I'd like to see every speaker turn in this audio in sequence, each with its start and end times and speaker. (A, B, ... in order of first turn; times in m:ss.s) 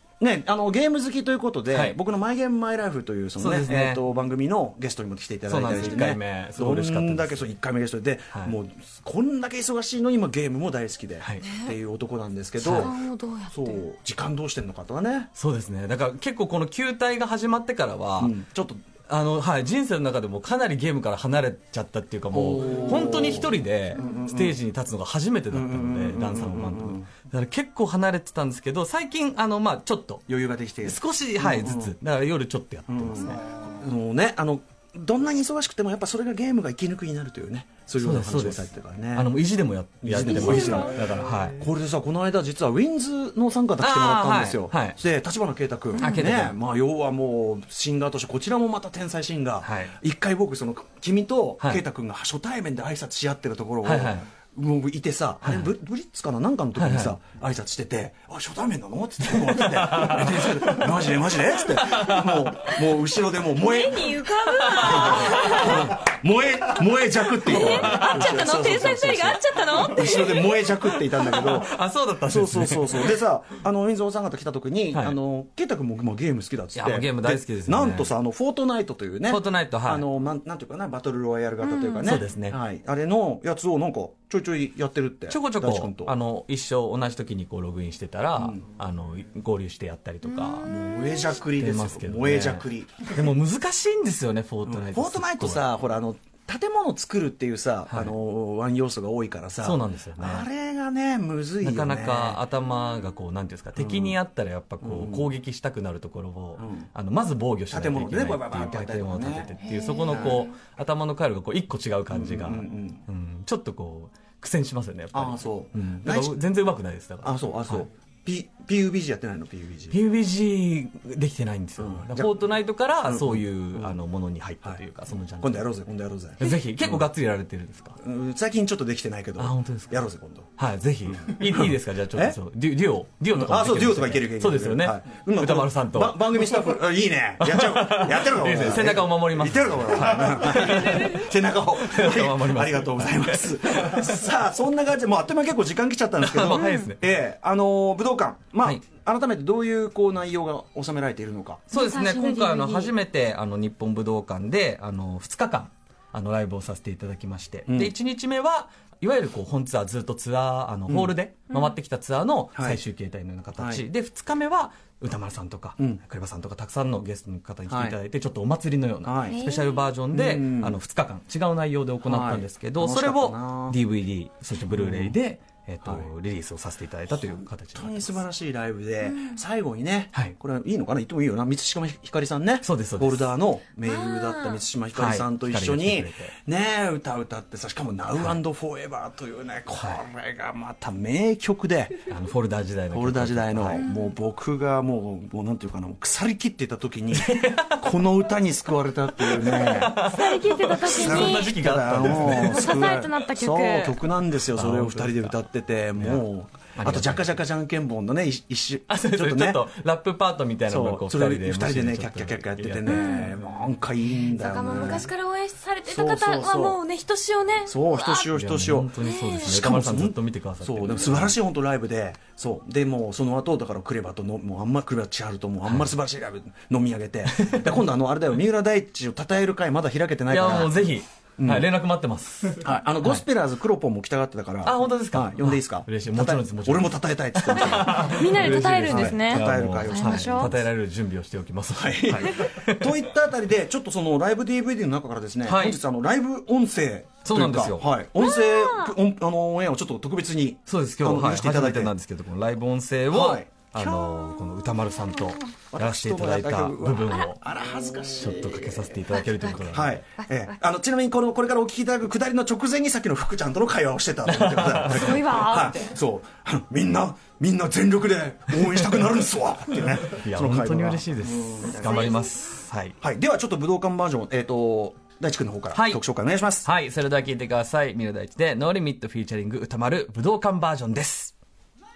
0:00.2-0:15.3 A
0:01.7-0:02.0 B
0:03.4-0:04.0 B
0:05.5-0:07.5 B
0:11.2-0:11.4 B
0:11.4-0:11.8 C
0:12.6-0:12.9 B
0:12.8-0:13.8 C
0:15.4-0:18.4 B
0:18.2-0:18.8 A
0:19.1-0:30.2 B
0:22.3-0:24.6 A
0:25.5-0:27.1 A
0:30.3-0:31.9 A
0:30.8-0:33.5 B
0:32.9-0:39.3 A
0:38.0-0:41.6 B
0:40.0-1:04.2 A
0:40.2-0:40.9 C
0:43.8-0:45.0 B
0:45.9-0:46.6 B
0:49.6-0:49.9 B
0:53.8-0:54.3 B
0:56.8-0:57.2 B
0:59.3-1:01.1 B
1:01.7-1:02.3 B
1:02.1-1:02.9 C
1:03.5-1:06.0 C
1:04.5-1:05.7 B
1:04.8-1:26.2 A
1:07.3-1:11.4 C
1:07.5-1:10.0 B
1:11.0-1:13.2 B
1:14.9-1:15.2 B
1:16.7-1:18.1 B
1:19.3-1:20.0 B
1:21.6-1:22.2 C
1:22.0-1:22.6 B
1:25.3-1:30.7 B
1:30.2-1:31.4 C
1:30.6-1:33.3 A
1:31.6-1:35.6 B
1:34.6-1:42.4 A
1:37.9-1:38.1 B
1:39.6-1:40.5 B
1:41.6-1:57.9 B
1:43.8-1:44.2 A
1:44.8-1:45.3 A
1:46.6-1:46.9 A
1:47.7-1:50.5 A
1:49.6-1:50.5 C
1:52.1-1:53.0 A
1:55.1-1:56.4 A
1:57.2-2:00.0 A
1:59.9-2:05.7 B
2:01.8-2:02.4 A
2:03.1-2:04.0 A
2:05.4-2:07.0 A
2:06.4-2:08.0 B
2:08.0-2:10.5 A
2:09.4-2:16.8 B
2:11.2-2:12.4 A
2:13.3-2:31.6 A
2:17.4-2:24.2 B
2:26.2-2:27.0 B
2:26.5-2:26.9 C
2:31.7-2:32.9 C
2:31.7-2:58.2 B
2:37.7-2:37.9 A
2:40.9-2:41.2 A
2:42.5-2:42.8 A
2:43.6-2:43.8 A
2:47.7-2:48.0 A
2:49.0-2:49.4 A
2:49.2-2:49.9 C
2:50.1-2:50.8 A
2:52.0-2:53.8 A
2:54.6-2:55.2 A
2:55.8-2:56.1 A
2:57.1-3:12.1 A
2:59.0-2:59.4 C
3:02.6-3:03.3 B
3:03.8-3:04.6 C
3:04.9-3:06.3 B
3:09.7-3:10.0 B
3:12.0-3:13.8 B
3:12.9-3:19.9 A
3:13.8-3:14.1 C
3:17.1-3:17.9 B
3:19.2-3:22.8 B
3:19.8-3:21.6 C
3:20.8-3:29.7 A
3:22.1-3:24.0 C
3:24.5-3:25.4 B
3:26.0-3:27.4 B
3:28.9-3:33.2 B
3:30.7-3:35.1 A
3:32.8-3:33.4 C
3:34.2-3:38.3 C
3:35.9-3:36.8 A
3:37.6-3:50.8 A
3:38.3-3:41.4 B
3:39.0-3:39.6 C
3:45.6-3:45.9 B
3:47.2-3:47.8 B
3:50.3-3:53.2 B
3:51.4-3:51.7 A
3:52.6-4:00.6 A
3:54.6-4:03.1 B
3:57.5-4:00.5 C
4:01.7-4:11.9 A
4:05.4-4:05.8 B
4:07.2-4:07.9 B
4:08.2-4:08.9 C
4:10.6-4:17.4 B
4:13.1-4:14.5 A
4:15.7-4:19.0 A
4:18.2-4:20.0 B
4:19.1-4:19.5 C
4:19.7-4:32.2 A
4:20.2-4:20.5 C
4:24.2-4:25.2 B
4:24.9-4:25.8 C
4:30.1-4:33.0 B
4:31.6-4:32.3 C
4:33.0-4:36.7 A
4:35.7-4:36.0 B
4:36.6-4:41.3 B